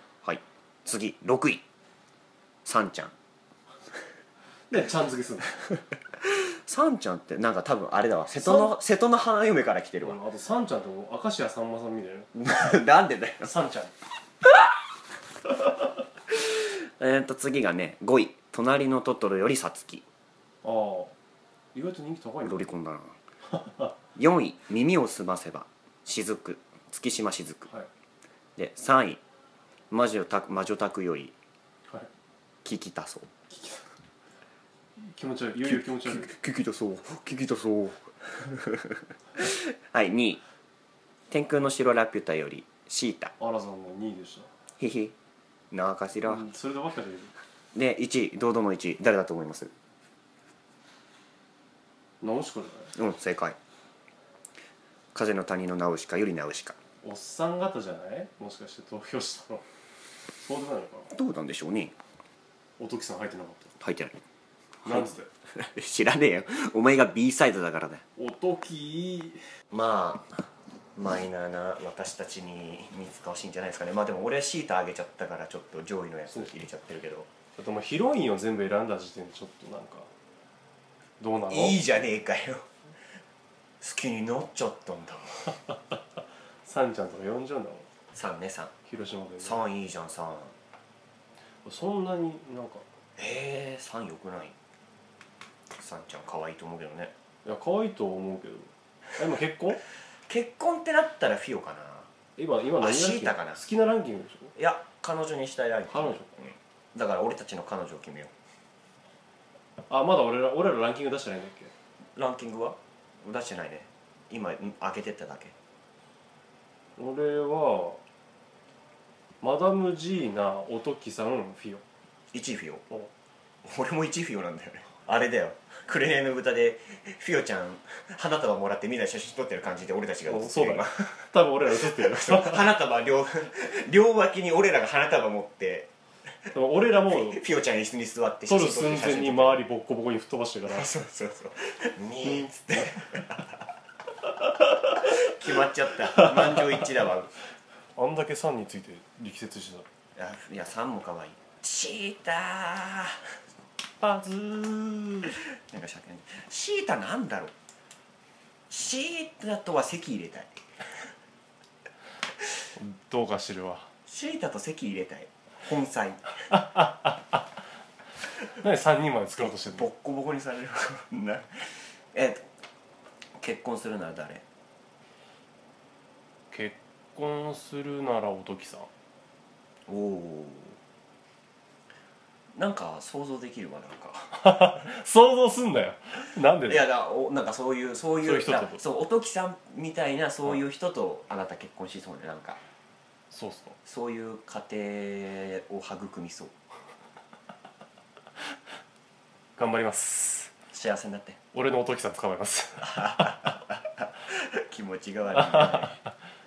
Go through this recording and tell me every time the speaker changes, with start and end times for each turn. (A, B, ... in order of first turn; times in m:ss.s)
0:00.2-0:01.6 A
0:02.6-0:03.1 A
0:04.7-0:05.5 B
0:06.2-0:10.2 A
0:08.4-0:08.7 B
0:10.0-0:12.3 B
0:12.3-0:13.5 A
0:13.4-0:13.9 B
0:16.3-0:20.0 A
0:20.6-0:21.1 B
0:21.7-0:22.7 B
0:22.4-0:23.1 A
0:23.5-0:23.9 B
0:24.2-0:27.7 A
0:28.6-0:29.2 A
0:29.9-0:31.3 A
0:32.6-0:33.3 A
0:33.5-0:33.8 B
0:35.0-0:36.4 B
0:35.6-0:40.4 A
0:41.3-0:43.3 A
0:43.4-0:44.5 B
0:44.8-0:45.1 A
0:45.7-0:46.4 A
0:46.2-0:47.3 B
0:47.7-0:49.7 A
0:52.2-0:52.9 B
0:52.9-0:53.6 A
0:55.1-0:56.8 A
0:57.0-0:59.6 B
1:00.4-1:01.1 B
1:01.1-1:01.9 A
1:02.8-1:03.7 B
1:03.8-1:04.2 A
1:04.8-1:08.0 A
1:04.8-1:05.3 B
1:08.2-1:09.4 B
1:09.7-1:17.3 A
1:16.3-1:16.5 B
1:17.6-1:20.1 B
1:21.2-1:21.9 B
1:21.5-1:22.7 A
1:23.8-1:25.5 A
1:26.6-1:27.9 B
1:28.1-1:28.7 A
1:28.9-1:29.6 B
1:29.4-1:30.5 A
1:31.6-1:32.8 B
1:33.2-1:34.6 A
1:35.8-1:37.1 A
1:37.4-1:39.8 B
1:40.3-1:42.1 A
1:42.4-1:44.5 B
1:42.8-1:43.6 A
1:44.5-1:48.3 A
1:45.9-1:46.3 B
1:49.9-1:51.7 B
1:52.2-1:55.5 A
1:57.0-1:58.0 B
1:59.4-2:01.8 B
2:02.3-2:02.8 A
2:03.6-2:15.9 A
2:10.2-2:12.6 B
2:16.5-2:17.4 B
2:17.1-2:19.6 A
2:18.5-2:20.9 B
2:20.6-2:23.6 A
2:24.9-2:27.3 A
2:26.1-2:26.9 B
2:28.0-2:29.8 B
2:30.2-2:33.2 A
2:34.0-2:35.4 B
2:35.7-2:37.5 A
2:38.7-2:40.5 A
2:42.8-2:43.9 B
2:44.1-2:46.3 A
2:46.5-2:47.4 B
2:48.5-2:49.9 B
2:49.4-2:52.4 A
2:53.4-2:54.4 A
2:56.5-2:58.9 B
2:59.9-3:00.8 A
3:02.5-3:04.8 A
3:04.4-3:06.8 B
3:06.6-3:12.6 A
3:08.2-3:08.8 B
3:13.3-3:13.8 B
3:13.8-3:16.5 A
3:19.6-3:20.5 B
3:20.7-3:21.4 A
3:21.5-3:23.5 B
3:22.8-3:26.0 A
3:25.4-3:25.9 B